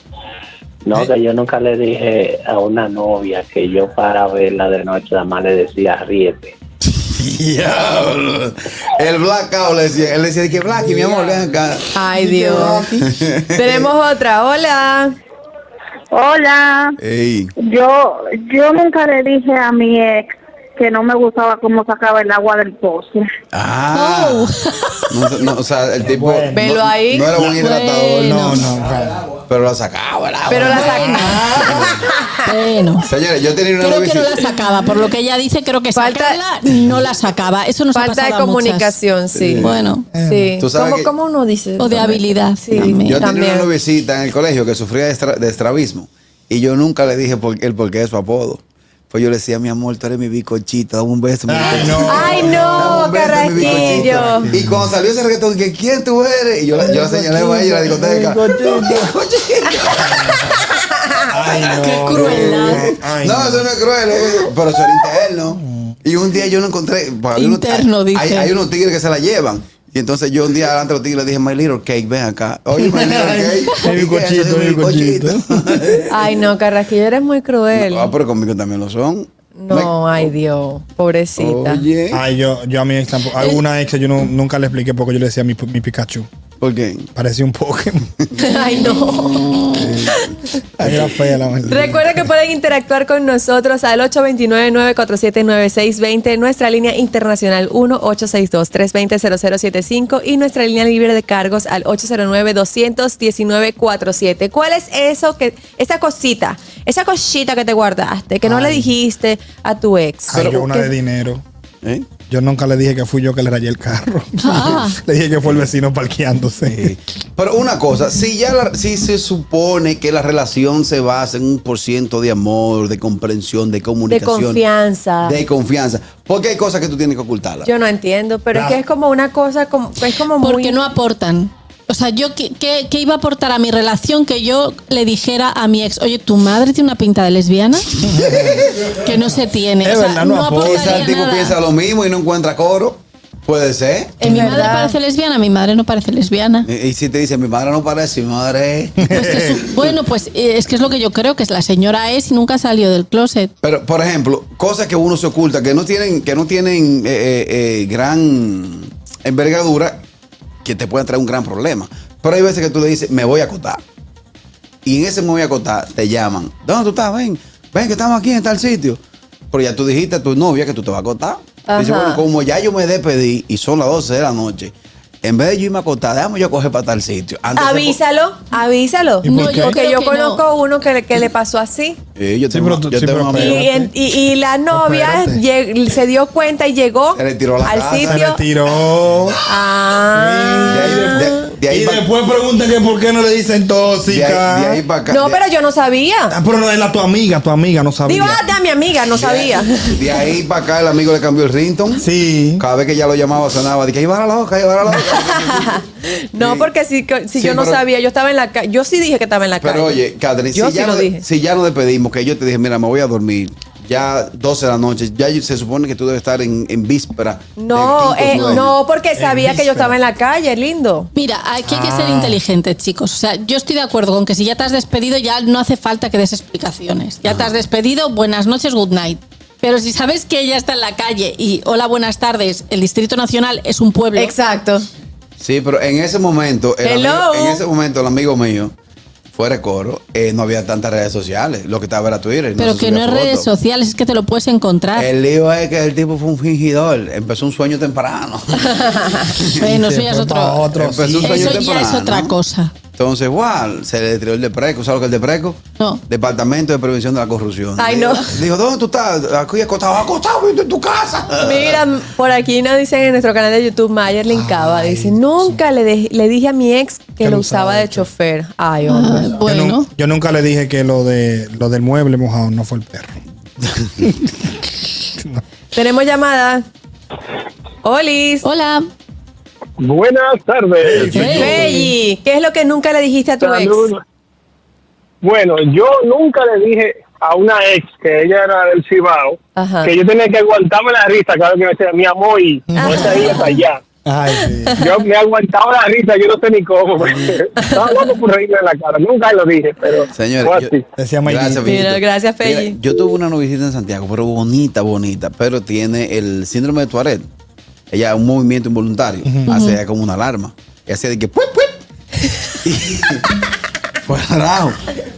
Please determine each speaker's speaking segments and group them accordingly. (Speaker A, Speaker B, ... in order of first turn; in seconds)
Speaker A: 0.8-6.5
Speaker B: 6.8-11.9, 12.8-13.9, 17.0-17.5, 23.5-24.5, 25.1-28.8, 29.3-31.9, 33.0-34.4, 39.4-39.8, 40.6-41.1, 42.8-60.4, 61.5-76.3, 77.7-80.3, 81.4-82.2, 86.6-87.1, 90.8-91.2, 110.3-110.8, 111.8-112.1, 116.7-124.6, 125.2-127.7, 138.2-138.8, 140.6-144.4, 146.7-149.1, 153.6-160.0, 160.6-163.8, 164.8-169.0, 169.5-178.0, 182.2-183.7, 187.2-188.2, 190.7-192.1, 194.1-195.4, 199.1-202.1, 202.6-205.8, 206.4-206.7, 207.3-207.8, 209.6-218.7, 227.3-227.5, 235.4-238.7, 239.3-243.5, 244.9-249.6, 250.8-252.4, 253.0-261.8, 300.1-300.7, 301.2-307.3, 307.9-311.8, 312.6-313.3, 314.0-314.9
Speaker C: 11.9-12.9, 13.6-15.1, 26.5-27.3, 30.5-32.4, 36.0-36.4, 37.9-43.7, 51.6-54.5, 60.5-61.3, 76.1-78.1, 79.6-81.8, 88.4-90.4, 91.7-110.4, 124.1-125.4, 127.7-130.8, 144.2-145.0, 171.7-172.2, 177.6-182.0, 183.4-188.4, 189.5-191.5, 195.1-196.4, 198.1-200.0, 205.0-210.0, 210.5-211.2, 217.6-221.1, 234.2-234.8, 236.8-237.6, 248.8-249.1, 257.8-258.4, 261.4-269.4, 275.7-276.6, 277.8-278.5, 281.2-283.9, 289.6-289.9, 292.8-293.6, 297.6-297.9, 301.6-302.8
Speaker D: 12.4-12.8, 26.0-26.7, 27.3-27.6, 28.3-29.2, 30.8-32.0, 40.1-40.5, 51.5-54.9, 56.8-59.1, 59.9-60.6, 61.3-63.7, 65.5-66.0, 72.8-75.9, 82.1-86.3, 87.2-88.1, 89.7-90.3, 90.8-92.2, 108.6-108.9, 110.3-111.4, 112.2-117.0, 138.0-138.8, 139.8-141.1, 149.0-149.6, 179.2-179.8, 182.5-183.9, 184.7-185.4, 188.0-189.4, 190.2-194.8, 196.3-198.5, 202.0-202.6, 219.2-219.9, 221.7-222.4, 249.6-251.6, 264.3-265.6, 267.2-268.1, 269.4-273.1, 280.8-281.6, 292.7-293.5, 294.1-294.8, 301.0-301.8, 309.3-309.5
Speaker E: 12.4-12.8, 23.9-25.5, 27.6-28.7, 30.6-31.2, 32.4-33.1, 33.8-39.0, 39.6-40.1, 41.8-43.3, 61.6-63.0, 67.3-68.5, 114.4-115.0, 130.4-137.9, 139.0-141.6, 144.2-146.7, 149.1-153.5, 179.2-180.4, 218.3-218.6, 221.1-234.3, 242.6-245.1, 249.4-252.7, 268.9-269.9, 278.4-278.8, 281.2-281.9, 309.5-309.8
Speaker F: 16.1-16.9, 17.6-23.3
Speaker G: 279.8-281.7, 283.4-284.0, 285.2-293.8, 294.8-300.9